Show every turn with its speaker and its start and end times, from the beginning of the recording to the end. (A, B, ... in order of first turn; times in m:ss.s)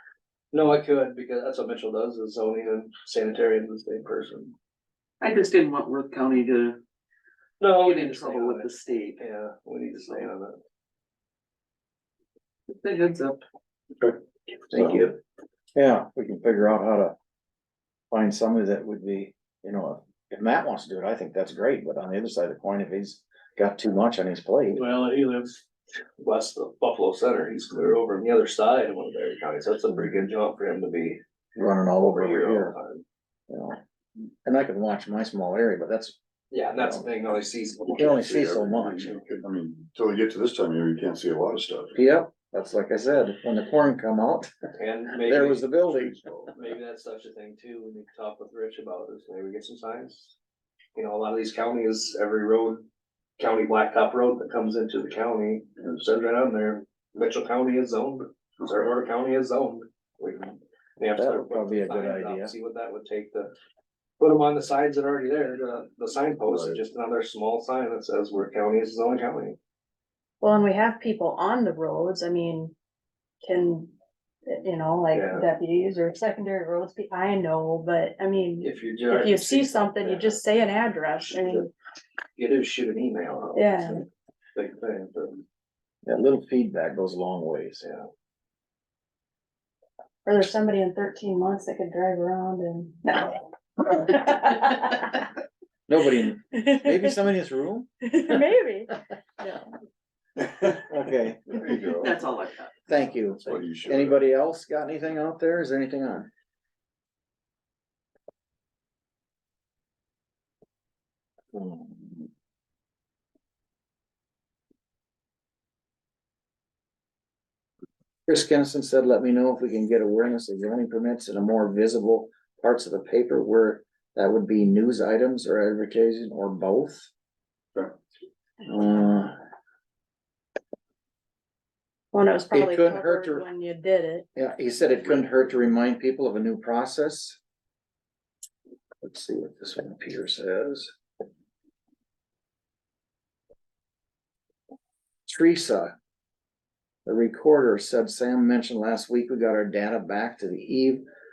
0:00.5-0:04.5 A
0:05.2-0:06.8 B
0:07.6-0:10.6 A
0:07.8-0:09.2 B
0:12.7-0:13.4 B
0:14.7-0:15.1 C
0:15.8-0:17.2 C
0:18.1-0:24.8 C
0:24.7-0:25.6 A
0:26.2-0:31.2 A
0:31.6-0:32.8 C
0:32.0-0:33.0 A
0:33.5-0:33.8 C
0:34.4-0:36.2 C
0:36.5-0:38.2 A
0:36.8-0:37.1 C
0:37.9-0:39.2 C
0:38.3-0:41.9 D
0:42.0-0:44.5 C
0:44.8-0:50.4 A
0:45.2-0:46.2 C
0:51.0-0:52.8 A
0:53.4-1:03.5 A
1:01.2-1:02.5 C
1:04.2-1:09.6 A
1:06.5-1:06.8 D
1:10.4-1:12.7 E
1:13.4-1:13.9 E
1:14.5-1:21.7 E
1:15.1-1:15.5 A
1:18.6-1:20.4 A
1:22.4-1:24.0 A
1:23.6-1:24.0 E
1:24.6-1:25.4 A
1:26.0-1:27.8 C
1:30.2-1:35.2 E
1:35.9-1:38.4 C
1:36.6-1:37.0 E
1:38.0-1:38.9 E
1:40.9-1:41.7 C
1:41.6-1:42.1 D
1:42.0-1:42.7 B
1:42.9-1:46.3 C
1:43.4-1:44.2 D
1:51.5-1:52.2 C
1:58.3-2:07.1 C
2:08.6-2:09.4 C
2:12.1-2:14.3 E
2:12.5-2:13.4 C
2:14.4-2:17.4 C
2:19.0-2:20.9 C
2:25.3-2:25.9 C
2:27.1-2:31.0 C